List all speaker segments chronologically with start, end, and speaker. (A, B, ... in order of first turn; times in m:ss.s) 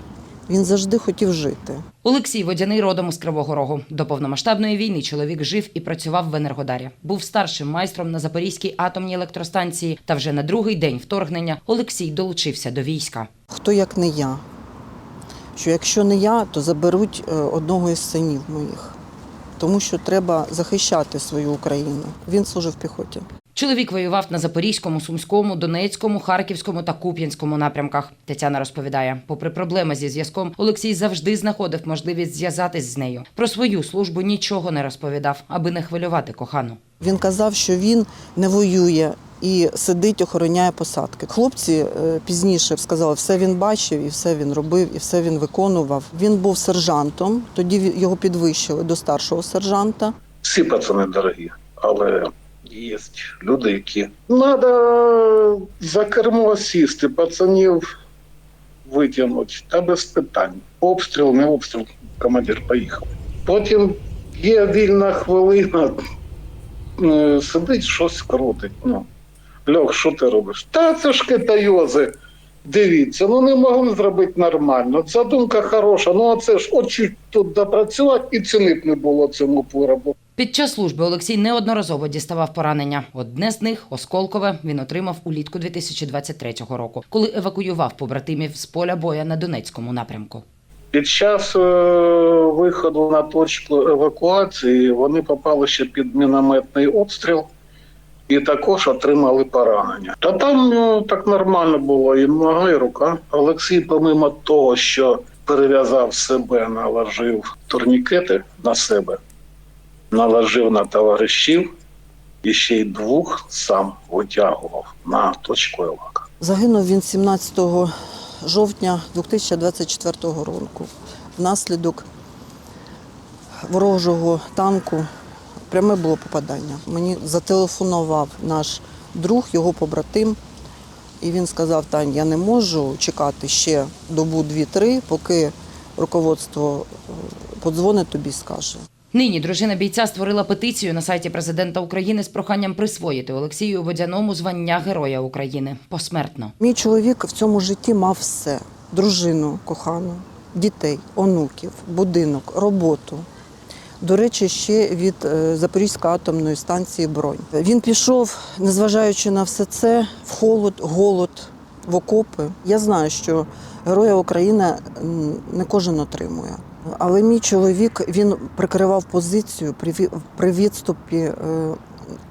0:00.5-0:01.8 A
0:02.0-0:13.3 B
0:13.5-0:14.4 A
0:15.6-0:19.0 A
0:19.6-0:23.2 A
0:23.5-0:36.8 B
0:37.0-0:50.1 A
0:50.4-0:57.9 C
0:58.8-1:06.0 C
1:07.0-1:09.1 C
1:09.7-1:12.1 C
1:12.6-1:20.1 C
1:20.4-1:30.4 B
1:30.9-1:37.5 C
1:38.3-1:49.2 C
1:50.1-1:51.7 C
1:52.4-1:56.2 C
1:56.4-2:02.1 A
2:03.6-2:05.1 A
2:05.7-2:10.4 A
2:11.2-2:18.8 A
2:19.1-2:26.5 B
2:26.6-2:33.3 A
2:34.0-2:51.8 A